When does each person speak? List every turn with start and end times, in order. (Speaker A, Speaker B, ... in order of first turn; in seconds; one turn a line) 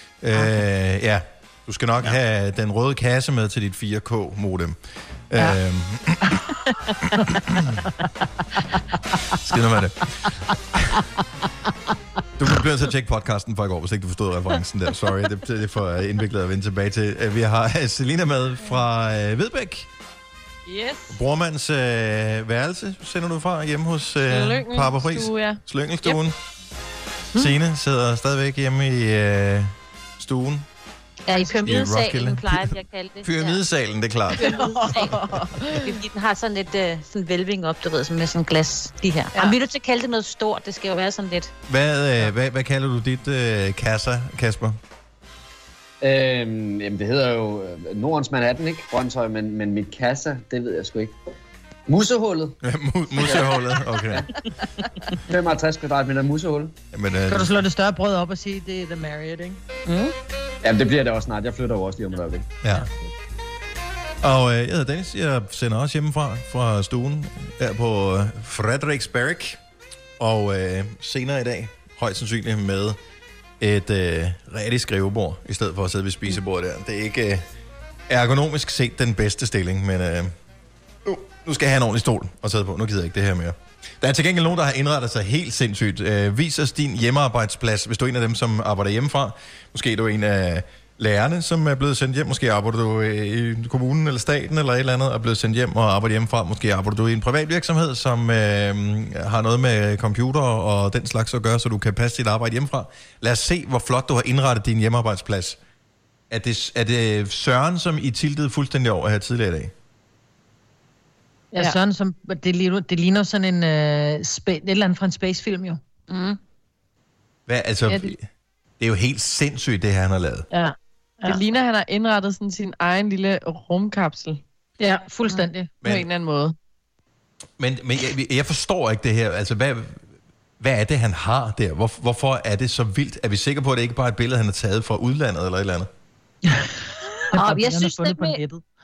Speaker A: 0.2-4.8
Speaker A: 5.3-6.4
Speaker B: 6.3-8.7
Speaker A: 7.0-7.8
Speaker A: 9.3-11.0
Speaker A: 12.4-19.9
Speaker C: 20.6-21.2
Speaker A: 21.1-26.4
Speaker C: 24.3-26.2
Speaker A: 27.3-30.6
Speaker D: 31.2-33.6
Speaker B: 31.3-31.6
Speaker A: 31.6-34.5
Speaker C: 34.4-35.9
Speaker B: 34.4-35.4
Speaker D: 34.9-41.5
Speaker A: 41.7-44.8
Speaker E: 46.0-51.1
Speaker E: 51.9-52.5
Speaker A: 52.6-54.3
Speaker E: 55.3-56.7
Speaker A: 56.9-57.6
Speaker B: 57.3-59.6
Speaker D: 59.9-60.1
Speaker E: 60.6-62.5
Speaker A: 62.6-62.9
Speaker A: 64.2-69.6
Speaker A: 70.2-73.0
Speaker A: 73.6-77.4
Speaker A: 78.1-80.3
Speaker A: 81.0-105.6
Speaker A: 106.3-109.7
Speaker B: 111.5-115.8
Speaker D: 116.1-116.4
Speaker A: 117.5-118.2
Speaker C: 117.9-118.1
Speaker A: 118.8-120.5
Speaker B: 120.5-121.4
Speaker C: 121.2-124.4
Speaker B: 124.8-125.7
Speaker C: 125.3-126.5
Speaker A: 125.8-126.1
Speaker A: 127.6-130.0
Speaker A: 130.6-135.9
Speaker B: 136.4-138.6
Speaker D: 137.3-138.4